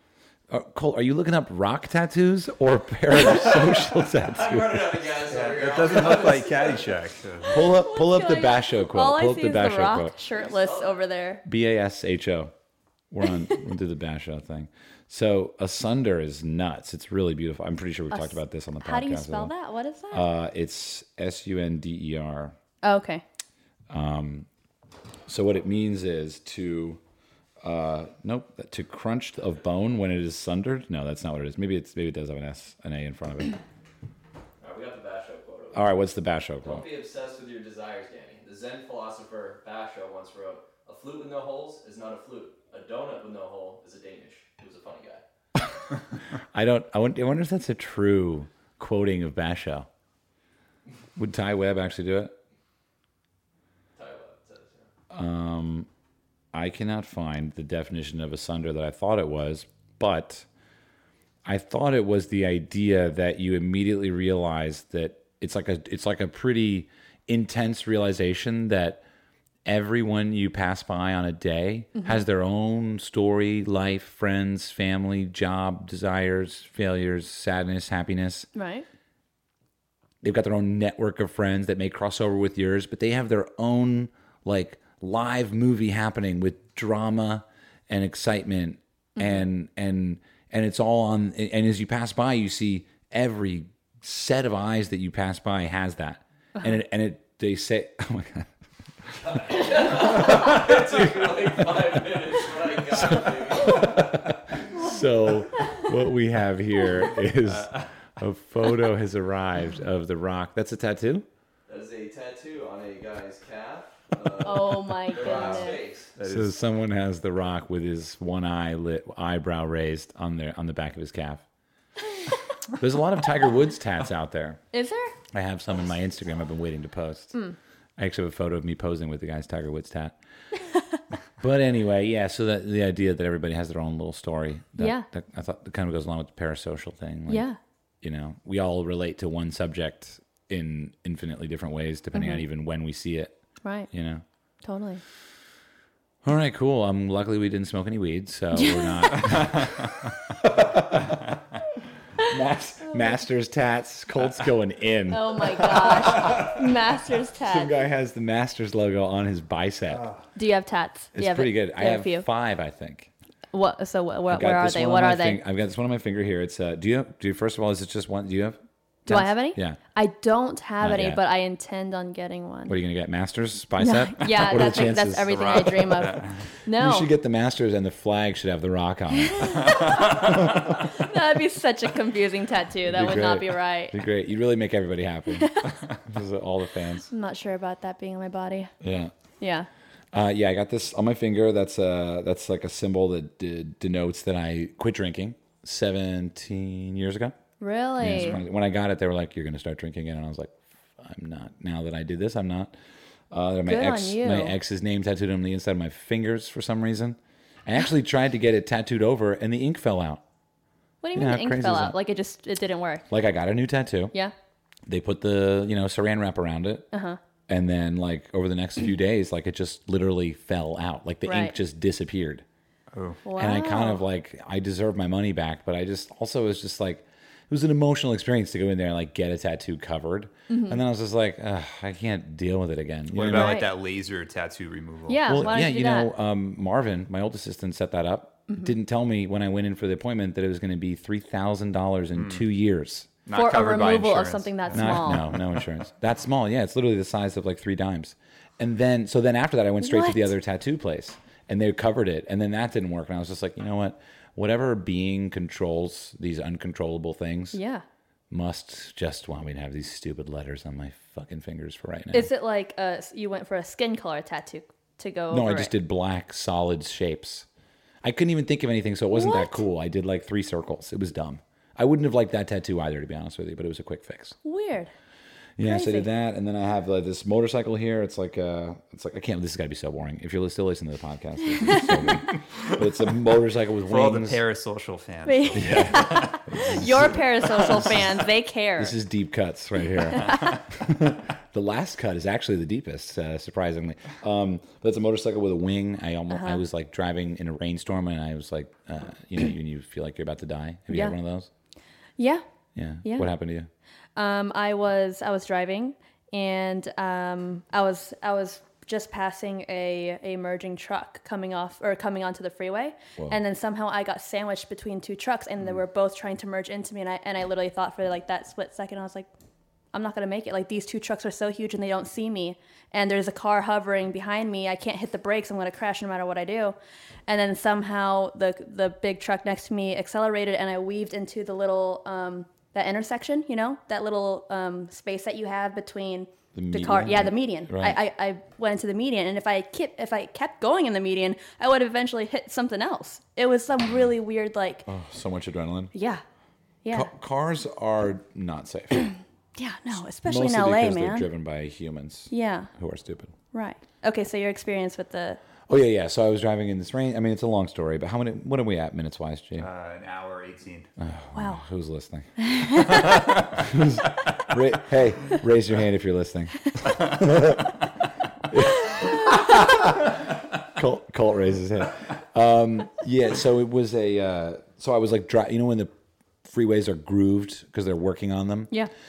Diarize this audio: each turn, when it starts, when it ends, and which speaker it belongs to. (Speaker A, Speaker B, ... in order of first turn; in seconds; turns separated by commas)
Speaker A: 0.5-5.1, Speaker B: 4.3-6.9, Speaker C: 5.3-7.6, Speaker A: 7.5-10.1, Speaker D: 7.6-11.4, Speaker B: 10.4-10.9, Speaker A: 11.4-12.5, Speaker A: 13.1-19.5, Speaker D: 18.1-20.3, Speaker A: 20.1-22.6, Speaker D: 22.8-23.2, Speaker A: 23.9-24.5, Speaker A: 25.3-27.0, Speaker A: 27.6-33.6, Speaker B: 34.6-35.8, Speaker A: 35.7-36.9, Speaker B: 36.6-45.2, Speaker A: 46.5-49.9, Speaker A: 51.1-52.3, Speaker B: 54.0-54.9, Speaker A: 55.1-55.9, Speaker A: 56.5-60.5, Speaker A: 61.4-69.0, Speaker A: 69.6-78.5, Speaker D: 78.5-78.8, Speaker A: 80.2-98.5, Speaker B: 99.2-104.1, Speaker A: 100.1-101.7, Speaker A: 102.9-111.2, Speaker C: 107.5-107.9, Speaker B: 111.7-116.2, Speaker D: 114.4-115.8, Speaker C: 115.2-116.5, Speaker A: 116.2-121.4, Speaker A: 122.7-124.6, Speaker D: 124.7-125.1, Speaker A: 125.3-127.4, Speaker A: 128.0-130.2, Speaker A: 131.4-137.5, Speaker D: 134.8-135.1, Speaker D: 137.3-137.6, Speaker A: 138.0-143.3, Speaker D: 142.1-142.4, Speaker D: 143.6-143.9, Speaker A: 143.9-144.2, Speaker D: 144.6-145.0, Speaker A: 146.2-151.4, Speaker D: 148.5-149.3, Speaker A: 152.2-156.6, Speaker D: 155.1-157.7, Speaker A: 157.4-160.1, Speaker D: 160.3-162.2, Speaker A: 161.1-163.1, Speaker D: 163.5-165.4, Speaker A: 164.3-169.8, Speaker D: 169.1-172.8, Speaker A: 170.8-171.2, Speaker A: 172.7-176.1, Speaker D: 173.8-177.1, Speaker C: 175.4-176.4, Speaker A: 176.7-180.9, Speaker D: 179.3-184.0, Speaker A: 182.8-187.1, Speaker D: 185.3-185.7, Speaker D: 187.1-188.7, Speaker A: 188.8-189.1, Speaker D: 189.4-189.7, Speaker A: 190.1-197.3, Speaker D: 197.6-198.4, Speaker A: 198.0-202.7, Speaker A: 203.3-210.2, Speaker D: 203.7-204.5, Speaker D: 211.0-213.0, Speaker A: 211.1-211.9, Speaker A: 213.1-214.1, Speaker A: 214.9-216.9, Speaker D: 216.9-217.2, Speaker A: 217.5-222.4, Speaker D: 221.2-221.6, Speaker C: 222.9-223.2, Speaker D: 223.2-224.0, Speaker A: 223.3-233.6, Speaker D: 230.5-230.8, Speaker C: 233.1-235.4, Speaker D: 233.3-233.7, Speaker D: 235.1-236.1, Speaker A: 235.3-243.1, Speaker C: 242.2-242.4, Speaker C: 243.2-245.2, Speaker D: 243.3-245.2, Speaker A: 244.7-257.6, Speaker D: 249.8-250.3, Speaker D: 257.5-257.8, Speaker A: 258.3-262.3, Speaker D: 262.1-265.7, Speaker A: 265.3-267.5, Speaker A: 268.0-274.4, Speaker D: 269.1-269.6, Speaker D: 274.4-274.9, Speaker A: 275.6-284.4, Speaker D: 275.6-276.1, Speaker D: 281.6-282.2, Speaker C: 283.9-286.4, Speaker D: 285.2-288.9, Speaker A: 285.6-288.0, Speaker A: 288.8-301.5, Speaker D: 290.1-290.6, Speaker D: 296.3-296.6, Speaker D: 300.9-301.1, Speaker D: 302.2-302.4, Speaker A: 302.7-303.7, Speaker D: 303.0-303.3, Speaker D: 304.1-319.3, Speaker D: 319.9-326.7, Speaker D: 327.3-344.9, Speaker A: 336.5-338.0, Speaker A: 344.9-345.9, Speaker D: 345.9-346.2, Speaker D: 346.8-347.1, Speaker A: 346.9-349.1, Speaker D: 349.6-351.3, Speaker A: 350.2-353.3, Speaker D: 352.3-352.7, Speaker D: 353.5-355.4, Speaker A: 355.7-359.7, Speaker C: 359.6-360.9, Speaker A: 361.0-367.8, Speaker D: 361.4-361.6, Speaker D: 362.4-363.2, Speaker A: 368.5-375.9, Speaker A: 376.4-378.7